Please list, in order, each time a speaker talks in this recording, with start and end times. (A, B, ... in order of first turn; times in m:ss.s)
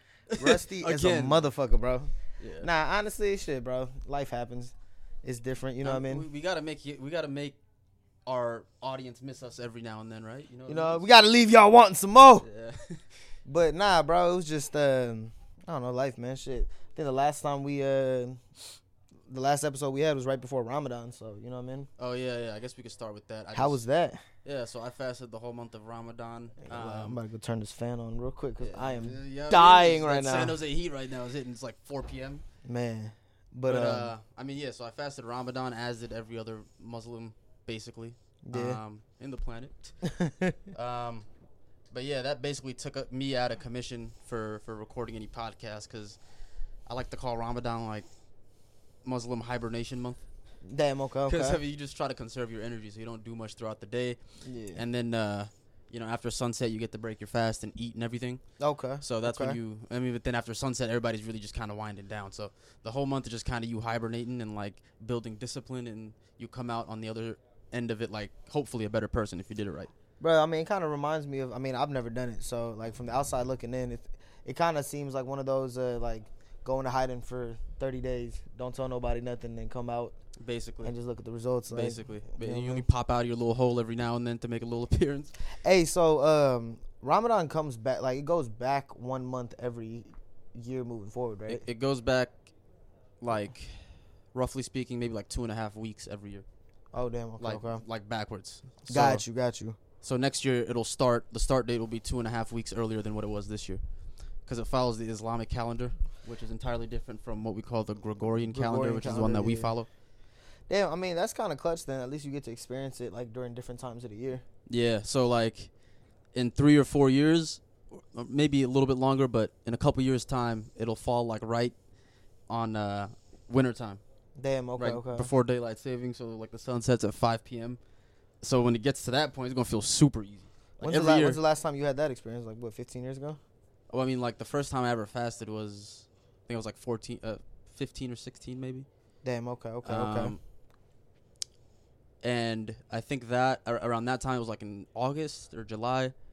0:00.3-0:01.4 A
0:00.4-0:06.3 B
0:02.4-0:02.7 A
0:05.8-0:07.6 A
0:08.3-0:11.2 A
0:10.7-0:12.5 B
0:12.4-0:13.0 A
0:13.5-0:18.4 B
0:19.3-0:21.9 B
0:22.0-0:23.8 A
0:23.5-0:24.2 B
0:24.4-0:27.2 A
0:26.7-0:30.6 B
0:28.6-0:32.4 A
0:32.6-0:34.1 B
0:33.7-0:40.0 A
0:38.4-0:38.8 B
0:40.0-0:40.6 B
0:40.7-0:41.3 A
0:41.9-0:46.2 A
0:46.9-0:48.1 A
0:49.0-0:50.2 A
0:50.7-0:51.6 B
0:51.3-0:54.2 A
0:54.4-0:54.8 B
0:54.8-0:58.4 A
0:58.6-0:59.6 B
0:59.0-1:09.9 A
1:10.2-1:20.2 B
1:20.4-1:21.0 A
1:20.8-1:22.8 B
1:21.7-1:25.3 A
1:25.6-1:31.6 B
1:31.5-1:32.5 A
1:33.2-1:36.5 A
1:36.9-1:37.8 B
1:37.4-1:39.2 A
1:38.9-1:39.8 B
1:40.0-1:43.8 A
1:44.5-1:49.9 A
1:48.5-1:49.7 B
1:50.7-1:54.4 B
1:54.7-1:55.7 A
1:56.3-2:01.8 A
2:02.5-2:04.0 A
2:04.4-2:05.3 B
2:04.8-2:07.8 A
2:08.4-2:11.4 A
2:10.8-2:13.4 B
2:13.9-2:18.9 A
2:19.2-2:20.4 B
2:19.8-2:20.4 A
2:22.2-2:26.1 A